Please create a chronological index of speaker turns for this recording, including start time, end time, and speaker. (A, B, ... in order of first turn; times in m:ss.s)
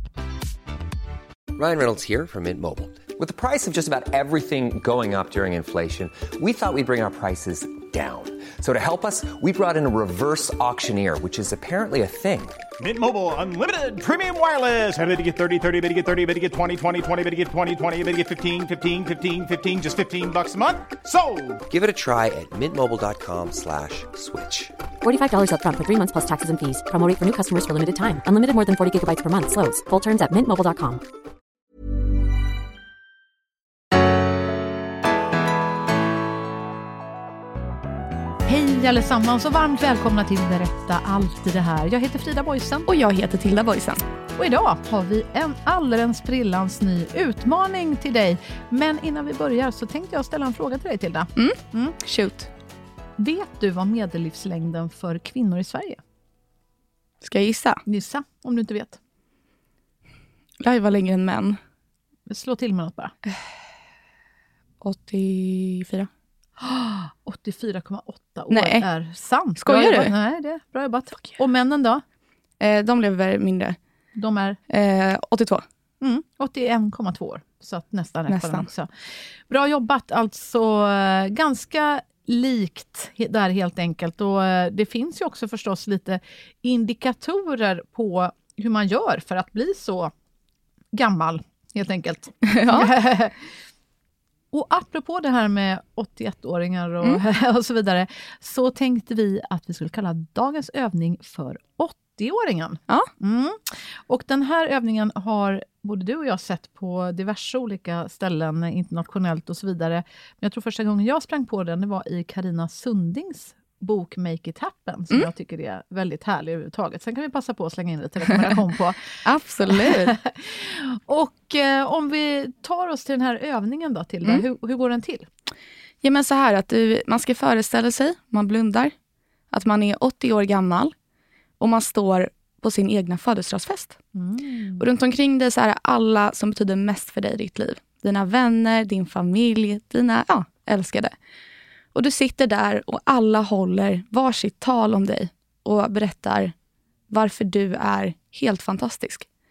0:01.6-0:12.6 A
0:12.8-0:21.6 B
0:21.7-0:24.7 A
0:25.0-0:31.0 C
0:38.4-0:42.9 D
0:42.9-0:44.0 E
0:44.4-0:51.9 D
0:51.4-0:52.5 E
0:53.2-0:56.0 D
0:57.2-0:57.8 E
0:57.9-0:59.0 D
1:00.6-1:01.6 E
1:02.3-1:03.1 D
1:04.8-1:06.1 E
1:06.6-1:12.0 D
1:08.5-1:09.0 E
1:09.6-1:10.1 E
1:12.6-1:13.8 E
1:14.1-1:14.6 D
1:14.7-1:15.6 E
1:16.0-1:30.1 D
1:18.3-1:18.7 E
1:30.9-1:33.5 D
1:32.5-1:32.9 E
1:34.5-1:59.1 D
1:59.2-2:00.1 E
1:59.8-2:05.3 D
2:06.0-2:08.9 E
2:09.5-2:10.9 E
2:11.6-2:14.0 E
2:14.1-2:14.8 D
2:14.8-2:21.1 E
2:21.9-2:26.5 E
2:27.1-2:29.3 E